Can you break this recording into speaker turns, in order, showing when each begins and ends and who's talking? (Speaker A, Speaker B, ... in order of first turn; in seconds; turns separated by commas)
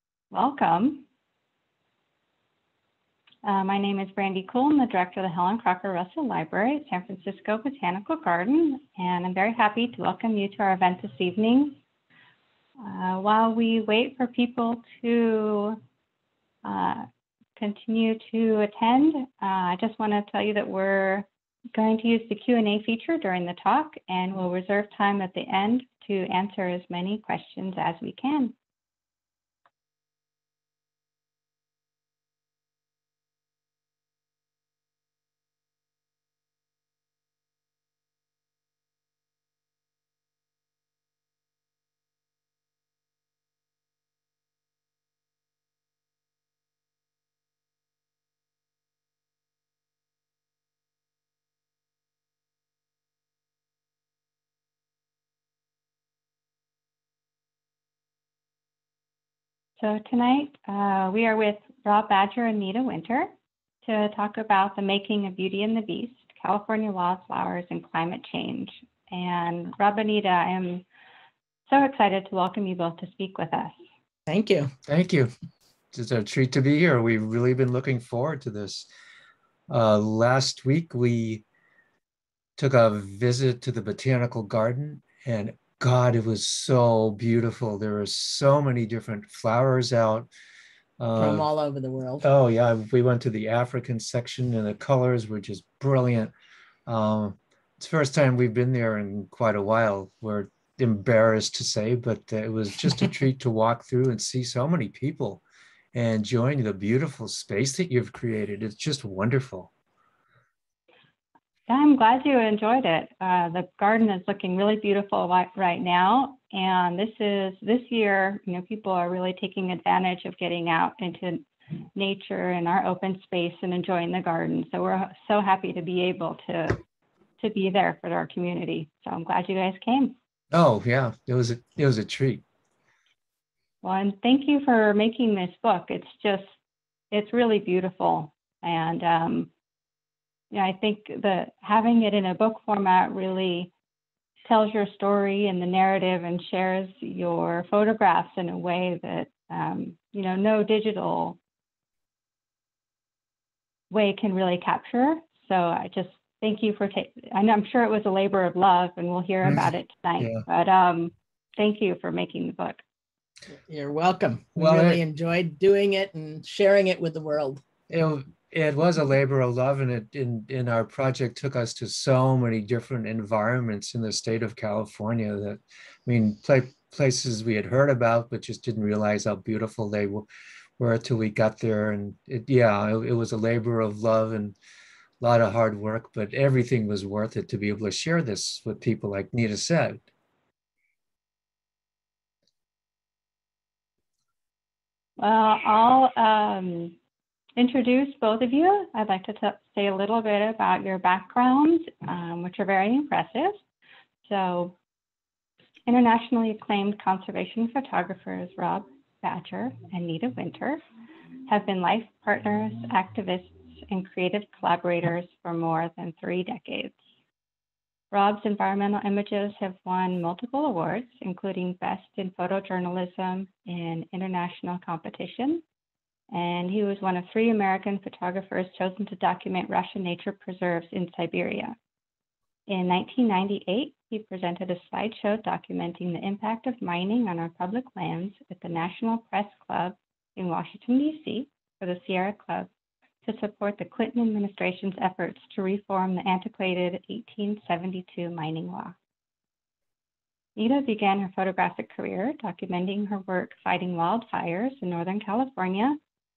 Speaker A: 0.3-1.1, Speaker A: 3.4-11.8, Speaker A: 12.8-15.8, Speaker A: 16.6-17.1, Speaker A: 17.6-28.5, Speaker A: 59.8-63.3, Speaker A: 63.8-70.8, Speaker A: 71.7-73.7, Speaker B: 74.3-74.7, Speaker C: 74.9-75.3, Speaker C: 75.9-78.9, Speaker C: 79.7-81.4, Speaker C: 82.6-90.3, Speaker C: 91.0-91.5, Speaker B: 91.2-92.2, Speaker C: 92.2-96.3, Speaker C: 96.9-105.4, Speaker C: 105.9-109.7, Speaker A: 111.7-126.8, Speaker A: 127.4-130.2, Speaker C: 130.5-132.4, Speaker A: 133.8-136.5, Speaker A: 137.1-139.5, Speaker A: 140.5-143.7, Speaker A: 144.4-151.4, Speaker A: 153.9-162.8, Speaker B: 163.7-167.6, Speaker C: 164.6-165.0, Speaker C: 167.9-180.3, Speaker C: 180.8-184.6, Speaker C: 185.2-190.0, Speaker A: 195.2-196.9, Speaker A: 197.6-203.6, Speaker A: 204.3-204.7, Speaker A: 205.9-210.8, Speaker A: 211.5-216.9, Speaker A: 218.1-225.6, Speaker A: 226.3-231.8, Speaker A: 232.7-242.7, Speaker A: 243.2-248.9, Speaker A: 250.6-256.0